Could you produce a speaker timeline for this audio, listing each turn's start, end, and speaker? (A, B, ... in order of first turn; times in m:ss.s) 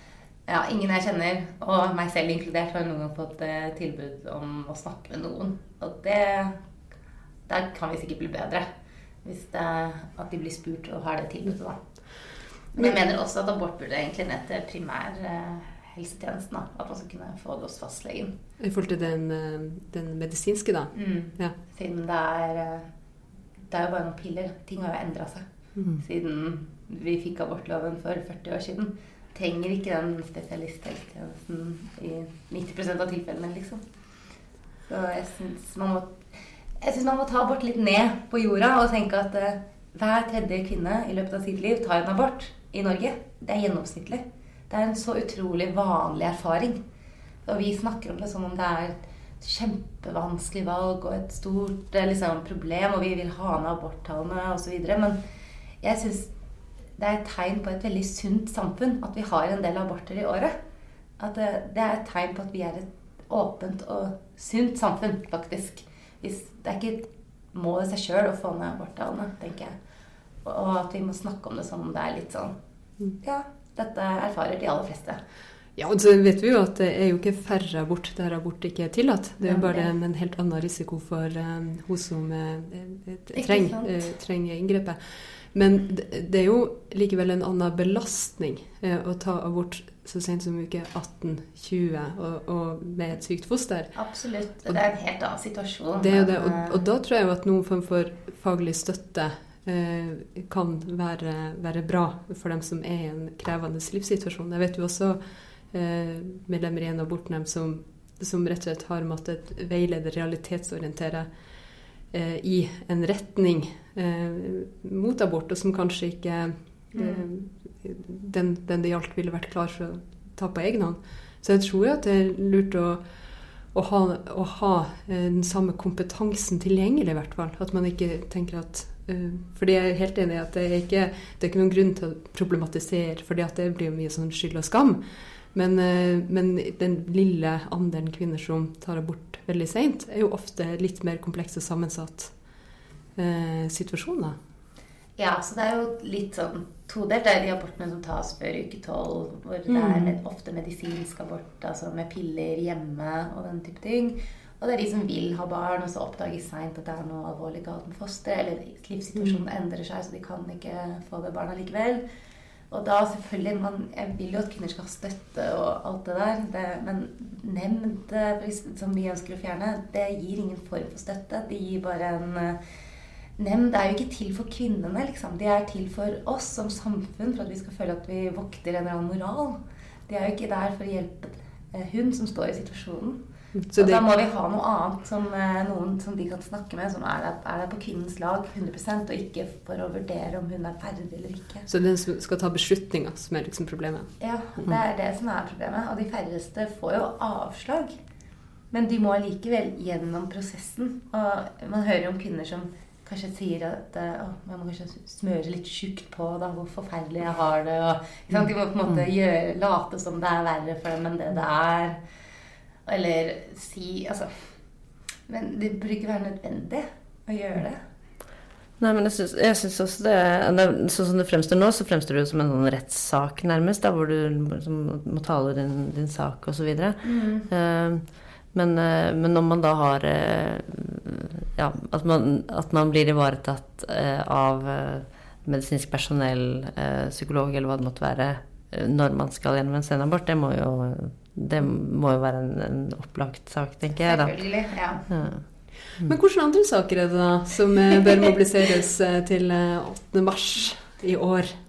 0:00.5-0:06.6 A
0:07.5-0:08.7 A
0:09.2-0:11.8 A
0:12.7-0:18.4 A
0:18.6-0:21.6 B
0:21.0-0:22.9 A
0:23.7-0:33.8 A
0:34.9-0:36.3 A
0:36.8-0:46.8 A
0:47.4-0:55.2 A
0:55.8-0:56.3 A
0:57.0-1:00.6 A
1:01.2-1:09.8 A
1:10.4-1:12.6 A
1:13.2-1:15.2 A
1:15.8-1:34.1 B
1:19.4-1:19.9 A
1:23.3-1:24.1 A
1:34.0-1:36.8 A
1:36.0-2:22.3 B
1:56.9-1:57.2 A
2:23.2-2:24.4 B
2:25.2-2:42.0 A
2:29.7-2:30.1 B
2:39.2-2:39.4 B
2:42.7-2:52.6 A
2:53.4-3:03.2 A
3:03.6-3:04.1 B
3:03.8-3:11.7 A
3:11.7-3:14.1 B
3:14.2-3:18.0 A
3:18.7-3:32.0 A
3:32.9-3:34.3 A
3:35.3-3:37.8 A
3:38.8-4:04.4 C
3:47.0-3:47.5 A
4:04.0-4:05.1 A
4:05.1-4:05.4 C
4:05.9-4:11.5 B